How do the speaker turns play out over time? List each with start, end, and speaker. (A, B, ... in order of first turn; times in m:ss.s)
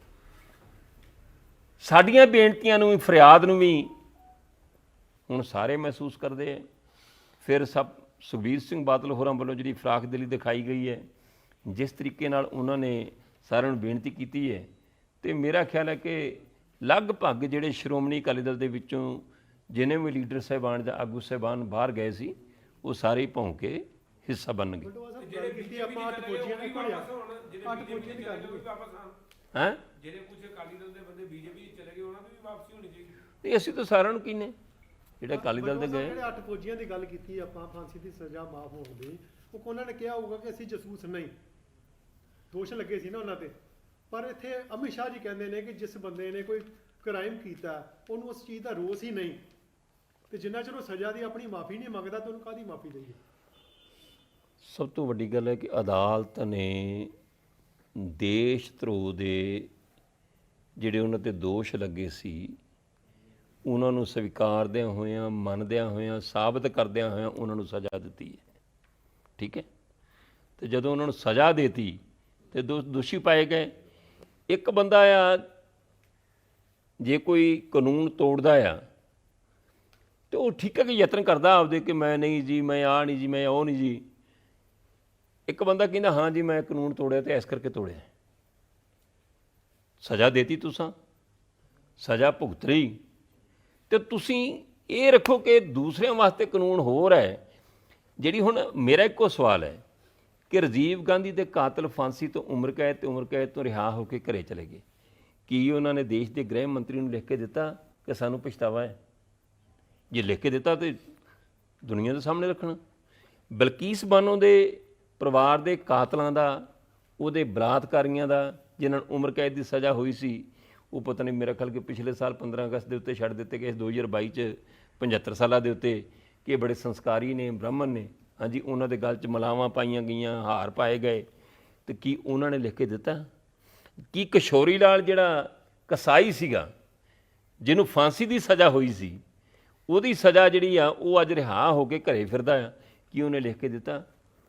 0:01.8-0:03.9 A
0:05.3-0:06.6 A
0:07.4-0:11.0 A
0:11.7-0:14.7 A
0:15.2-0:24.9 A
0:24.8-0:27.1 B
0:25.2-0:29.2 C
0:27.6-0:28.7 B
0:29.5-0:29.8 A
0:30.0-0:33.2 C
0:33.4-0:34.6 A
0:35.2-0:36.2 A
0:35.3-0:41.3 B
0:42.5-0:43.6 B
0:44.1-0:49.4 B
0:50.3-0:53.2 B
0:54.6-0:57.1 A
0:58.0-0:59.7 A
1:00.8-1:02.6 A
1:03.7-1:08.4 A
1:09.4-1:09.7 A
1:10.6-1:12.0 A
1:12.5-1:13.7 A
1:14.5-1:15.4 A
1:17.0-1:18.8 A
1:20.3-1:24.0 A
1:25.5-1:28.1 A
1:30.0-1:30.9 A
1:32.0-1:33.0 A
1:33.9-1:37.4 A
1:38.2-1:39.8 A
1:40.5-1:44.8 A
1:45.5-1:49.0 A
1:50.1-1:51.0 A
1:51.8-1:52.8 A
1:53.5-1:56.7 A
1:57.2-2:11.3 A
2:11.9-2:13.3 A
2:14.1-2:16.7 A
2:17.6-2:19.2 A
2:19.9-2:24.0 A